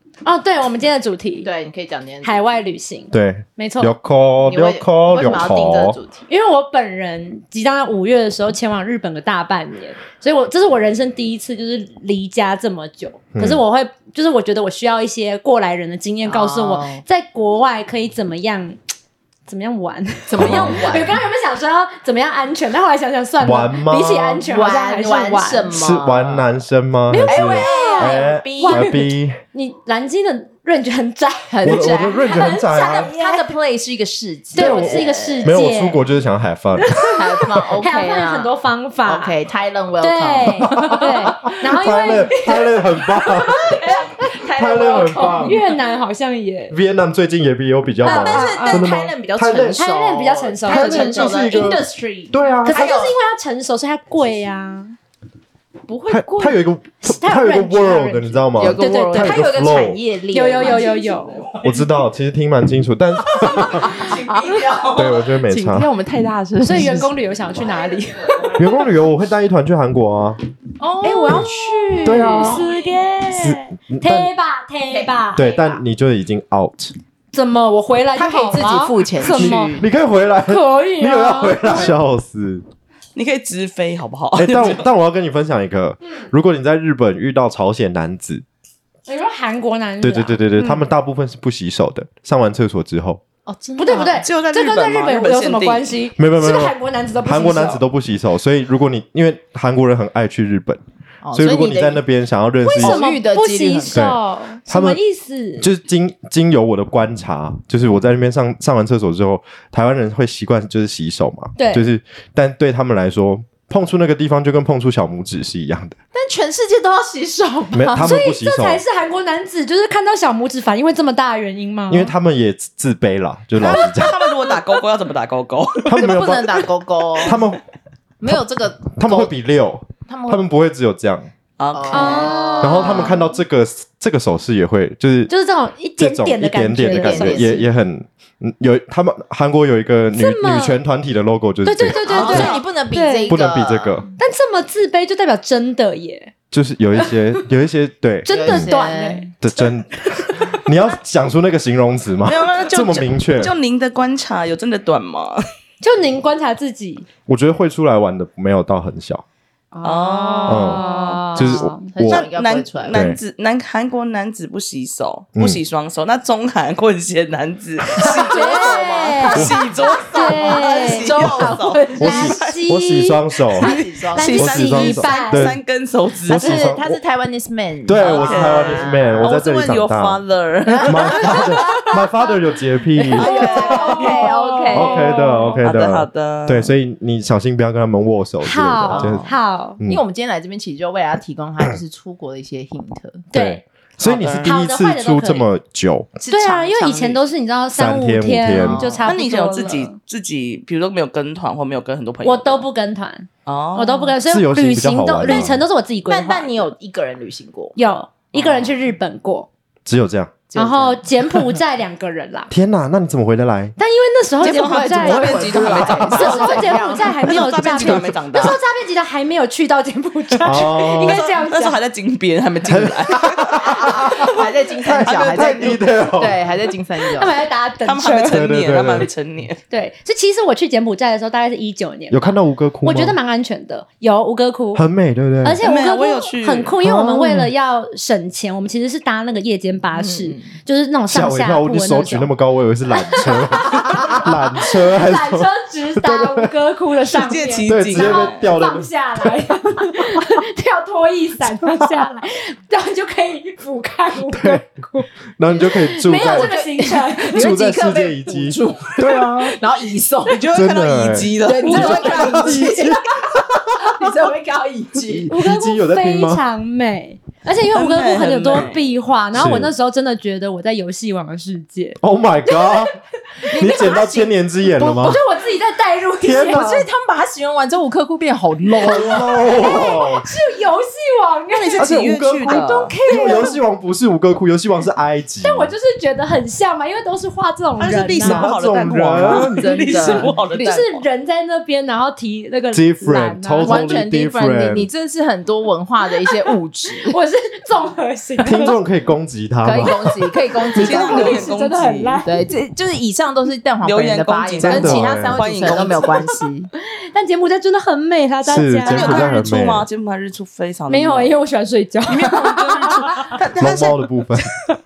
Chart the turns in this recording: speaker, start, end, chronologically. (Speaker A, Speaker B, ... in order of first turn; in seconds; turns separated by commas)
Speaker A: 0.2-1.5, Speaker B: 1.4-2.4, Speaker A: 2.2-3.9, Speaker C: 3.1-6.0, Speaker B: 4.4-6.2, Speaker A: 6.3-18.8, Speaker C: 13.3-13.6, Speaker B: 16.3-17.0, Speaker A: 19.5-25.7, Speaker B: 20.3-21.1, Speaker C: 20.4-20.9, Speaker C: 23.4-24.4, Speaker B: 24.5-26.4, Speaker C: 25.7-29.4, Speaker A: 27.1-33.5, Speaker B: 27.2-28.9, Speaker B: 31.5-35.6, Speaker C: 31.6-33.1, Speaker A: 34.5-36.0, Speaker C: 34.5-37.1, Speaker A: 36.8-39.3, Speaker B: 37.1-38.5, Speaker B: 39.0-41.3, Speaker A: 40.0-44.2, Speaker C: 40.8-43.8, Speaker B: 43.6-45.6, Speaker C: 44.5-45.6, Speaker A: 45.1-46.8, Speaker C: 46.7-49.8, Speaker A: 48.0-49.0, Speaker B: 48.0-53.1, Speaker A: 49.7-51.7, Speaker C: 50.7-52.9, Speaker A: 52.6-55.0, Speaker B: 55.9-56.6, Speaker C: 56.1-60.0, Speaker A: 57.0-59.5, Speaker B: 58.5-61.0, Speaker A: 60.3-61.5, Speaker D: 60.6-61.7, Speaker C: 61.6-64.0, Speaker B: 63.3-64.9, Speaker D: 63.5-65.3, Speaker C: 64.9-65.9, Speaker B: 65.5-67.1, Speaker A: 66.6-68.6, Speaker C: 68.5-70.4, Speaker B: 70.8-72.7, Speaker A: 71.0-75.5, Speaker C: 72.0-72.7, Speaker C: 73.3-74.3, Speaker B: 74.9-75.8, Speaker C: 75.3-76.9, Speaker A: 77.3-79.8, Speaker B: 78.1-79.8, Speaker C: 79.2-82.6, Speaker A: 80.5-81.9, Speaker D: 83.2-84.9, Speaker C: 84.3-88.4, Speaker A: 89.0-90.4, Speaker C: 90.0-93.2, Speaker D: 90.5-90.9, Speaker B: 93.5-94.2, Speaker A: 93.8-97.8, Speaker D: 93.9-96.0, Speaker C: 96.2-100.8, Speaker B: 101.2-102.0, Speaker C: 101.3-103.0, Speaker A: 102.6-105.7, Speaker B: 102.8-104.0, Speaker C: 103.9-105.0, Speaker C: 105.6-116.0, Speaker A: 111.5-111.8, Speaker B: 116.1-118.1, Speaker C: 117.7-118.8, Speaker A: 118.0-122.1, Speaker C: 121.9-124.1, Speaker D: 123.6-126.1, Speaker A: 123.6-124.6, Speaker C: 125.8-126.6, Speaker B: 126.0-127.4, Speaker C: 127.2-127.6, Speaker B: 128.2-129.3, Speaker C: 128.9-131.3, Speaker B: 130.1-130.4, Speaker D: 131.6-132.9, Speaker B: 131.7-133.1, Speaker A: 131.9-133.2, Speaker C: 132.6-135.3, Speaker A: 135.3-137.6, Speaker C: 136.0-142.5, Speaker B: 136.9-137.7, Speaker A: 140.1-140.8, Speaker A: 141.6-143.4, Speaker D: 142.0-142.6, Speaker B: 142.1-144.1, Speaker C: 143.3-144.1, Speaker A: 144.2-146.3, Speaker C: 146.5-148.7, Speaker A: 148.2-149.3, Speaker B: 148.3-149.3, Speaker C: 149.4-153.5, Speaker A: 150.0-150.6, Speaker D: 152.2-155.4, Speaker A: 155.8-157.1, Speaker C: 157.3-159.2, Speaker A: 159.7-161.9, Speaker D: 159.8-161.4, Speaker C: 160.5-162.3, Speaker B: 161.4-163.1, Speaker D: 162.1-172.6, Speaker C: 162.9-163.2, Speaker B: 168.0-171.9, Speaker A: 168.0-175.5, Speaker C: 169.3-169.6, Speaker C: 172.0-173.7, Speaker B: 173.6-174.3, Speaker D: 173.6-176.7, Speaker C: 174.3-175.6, Speaker C: 176.2-177.0, Speaker B: 176.3-179.3, Speaker C: 177.8-180.2, Speaker D: 177.9-181.8, Speaker B: 180.7-181.9, Speaker C: 180.8-184.1, Speaker B: 183.0-185.4, Speaker A: 183.1-185.6, Speaker D: 183.6-184.1, Speaker C: 184.7-190.0, Speaker D: 185.6-186.7, Speaker A: 188.4-189.8, Speaker B: 188.9-189.3, Speaker B: 189.8-193.2, Speaker A: 193.3-193.6, Speaker C: 193.3-196.2, Speaker D: 194.0-194.6, Speaker A: 194.4-195.5, Speaker B: 196.2-197.2, Speaker A: 196.3-200.0, Speaker C: 197.7-198.8, Speaker B: 198.5-199.0, Speaker D: 199.0-202.6, Speaker A: 202.2-206.7, Speaker D: 203.4-204.1, Speaker C: 204.2-205.6, Speaker B: 206.1-207.8, Speaker A: 207.7-209.5, Speaker C: 209.8-210.4, Speaker B: 210.5-211.0, Speaker A: 210.6-212.5, Speaker C: 212.5-213.7, Speaker A: 213.8-221.8, Speaker B: 214.4-218.1, Speaker D: 214.4-218.6, Speaker C: 220.4-221.2, Speaker D: 220.8-224.2, Speaker C: 222.7-226.4, Speaker B: 223.6-227.3, Speaker D: 225.0-225.8, Speaker A: 227.1-228.4, Speaker D: 227.8-229.6, Speaker C: 228.3-229.1, Speaker A: 229.7-234.8, Speaker C: 232.1-233.2, Speaker C: 234.7-235.6, Speaker A: 235.4-242.3, Speaker D: 235.6-236.7, Speaker C: 236.8-237.5, Speaker B: 239.9-240.5, Speaker C: 241.1-246.5, Speaker A: 242.9-255.1, Speaker D: 247.1-248.4, Speaker C: 247.7-249.3, Speaker C: 254.3-254.6, Speaker C: 255.4-256.5, Speaker A: 255.6-257.5, Speaker B: 256.1-260.5, Speaker C: 257.3-259.6, Speaker D: 260.3-262.2, Speaker C: 260.5-263.9, Speaker B: 261.4-262.9, Speaker A: 261.6-263.2, Speaker B: 263.7-265.3, Speaker C: 265.0-266.4, Speaker A: 265.3-272.9, Speaker D: 267.7-268.8, Speaker C: 269.3-269.7, Speaker C: 272.0-272.9, Speaker A: 273.4-276.7, Speaker B: 273.5-274.3, Speaker C: 273.5-275.2, Speaker C: 276.2-276.9, Speaker B: 276.3-279.9, Speaker C: 278.8-280.2, Speaker A: 278.8-283.6, Speaker D: 281.5-282.9, Speaker C: 281.8-285.7, Speaker B: 283.1-283.5, Speaker A: 285.4-288.5, Speaker D: 287.8-291.0, Speaker C: 288.2-290.2, Speaker B: 288.7-290.8, Speaker A: 290.6-294.0, Speaker C: 292.7-294.9, Speaker B: 293.6-297.2, Speaker A: 297.0-298.8, Speaker C: 298.4-300.1, Speaker B: 299.6-301.4, Speaker A: 300.6-302.4, Speaker D: 300.8-302.2, Speaker B: 302.2-306.7, Speaker D: 303.8-306.3, Speaker C: 304.6-305.4, Speaker A: 307.1-309.3, Speaker C: 308.4-309.9, Speaker D: 308.8-311.4, Speaker A: 310.9-313.3, Speaker D: 312.1-314.0, Speaker C: 313.6-314.5